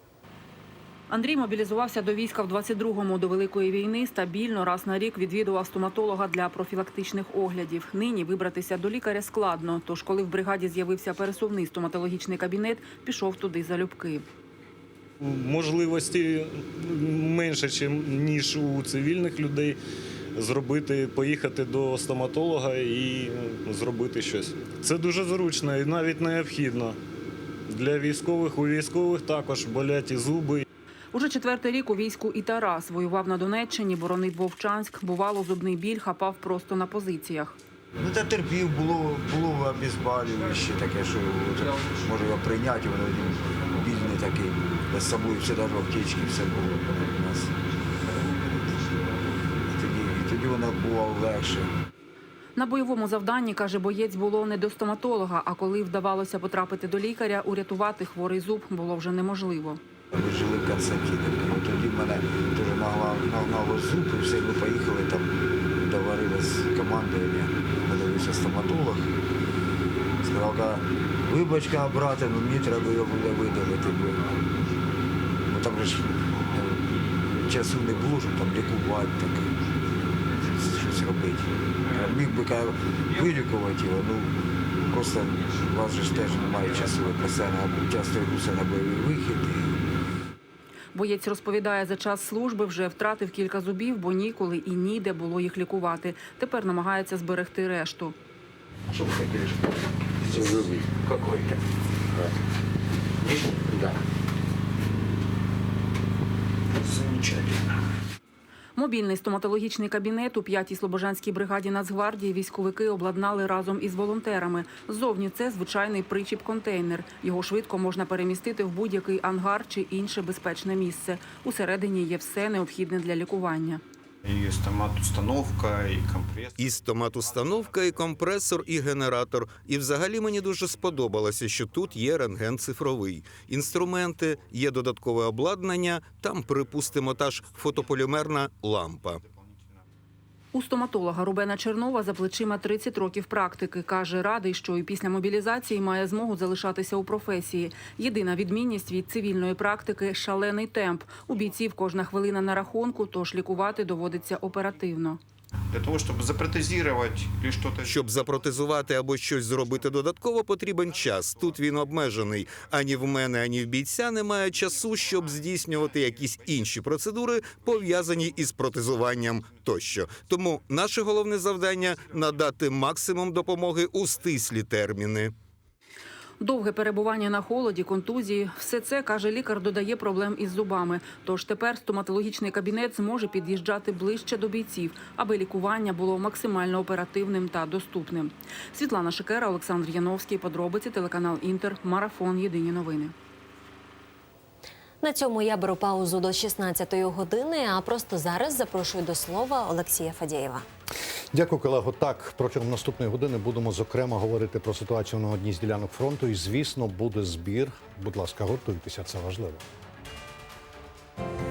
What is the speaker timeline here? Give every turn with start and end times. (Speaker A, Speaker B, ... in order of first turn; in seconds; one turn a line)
Speaker A: 1.1-14.2
Speaker B: 15.2-19.8
Speaker B: 20.4-27.0
Speaker B: 27.7-30.6
Speaker A: 31.1-37.6
Speaker C: 38.0-47.5
Speaker C: 49.6-51.7
Speaker A: 52.6-59.8
Speaker C: 60.1-69.1
Speaker C: 70.2-74.3
Speaker D: 73.5-74.7
Speaker C: 75.5-79.5
Speaker D: 76.5-77.0
Speaker D: 77.9-78.7
Speaker D: 79.6-80.3
Speaker C: 80.5-84.3
Speaker D: 81.8-82.1
Speaker C: 84.9-89.8
Speaker D: 85.3-87.3
Speaker A: 90.9-98.2
Speaker A: 108.8-123.8
Speaker D: 124.2-126.8
Speaker E: 126.6-139.2
Speaker A: 140.5-155.2
Speaker D: 155.7-158.0
Speaker E: 157.8-175.3
Speaker D: 164.8-166.4
Speaker A: 176.4-193.2
Speaker F: 195.0-200.7
Speaker G: 201.3-209.6